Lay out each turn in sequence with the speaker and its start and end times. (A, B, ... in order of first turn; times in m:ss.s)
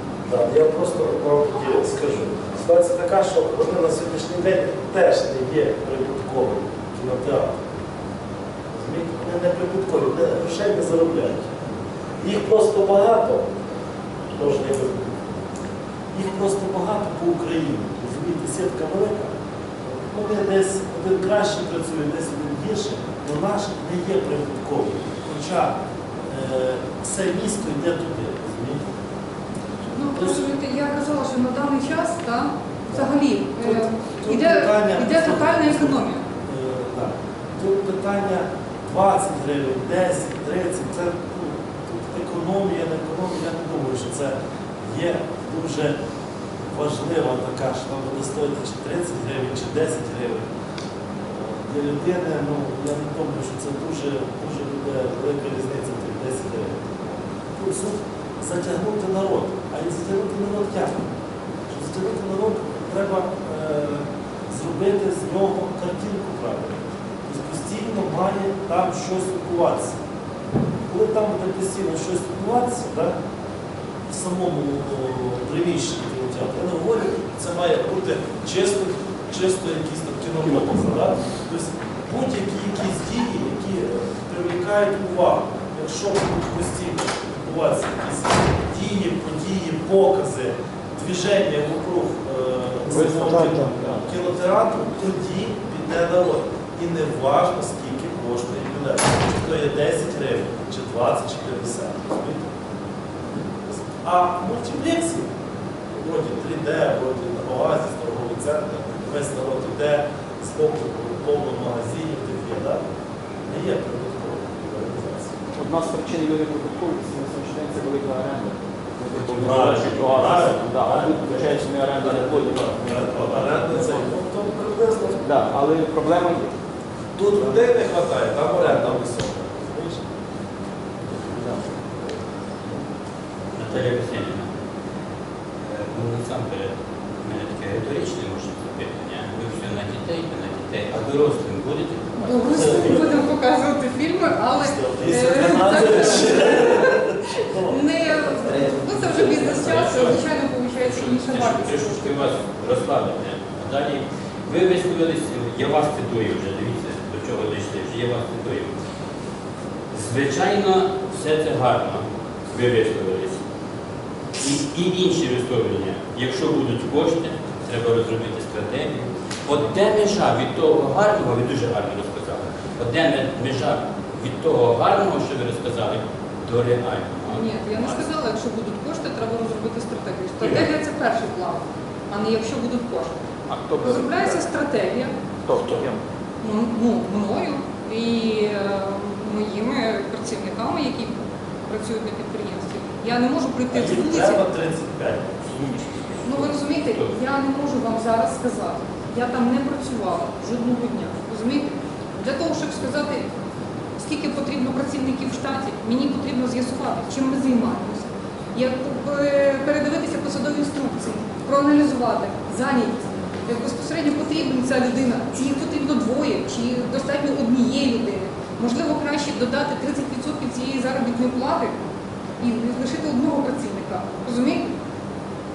0:00.2-0:07.6 A
0:08.7-0:11.6 A
0:12.2-0:13.5 A
0:14.3-0:15.2 A
0:16.1-0:19.3 A
0:19.9-0:28.8 A
0:29.9-0:36.2 B
0:30.0-0:30.5 A
0:32.9-0:44.3 A
0:44.8-0:46.0 A
0:46.7-0:50.5 A
0:51.2-1:01.1 A
1:01.7-1:10.0 A
1:10.9-1:13.1 A
1:14.1-1:42.5 A
1:32.9-1:34.3 C
1:43.6-1:45.3 A
1:46.0-1:52.8 A
1:53.4-1:55.4 A
1:55.6-2:04.1 C
1:59.2-2:00.2 D
1:59.3-2:05.2 A
2:05.2-2:06.5 C
2:07.2-2:10.0 A
2:07.3-2:07.6 C
2:08.6-2:09.0 C
2:13.5-2:14.5 D
2:15.6-2:22.8 D
2:22.2-2:26.9 B
2:22.5-2:23.2 A
2:24.5-2:27.8 A
2:25.6-2:26.3 D
2:27.6-2:32.3 B
2:28.8-2:38.8 D
2:39.9-2:43.4 D
2:44.4-2:58.0 D
2:57.3-3:03.2 B
3:00.4-3:00.7 D
3:03.5-3:04.5 C
3:03.8-3:05.1 B
3:05.4-3:06.0 C
3:05.6-3:05.8 D
3:06.4-3:14.4 B
3:13.7-3:15.6 A
3:15.5-3:17.1 D
3:16.2-3:23.3 B
3:24.0-3:41.7 B
3:42.4-3:44.7 B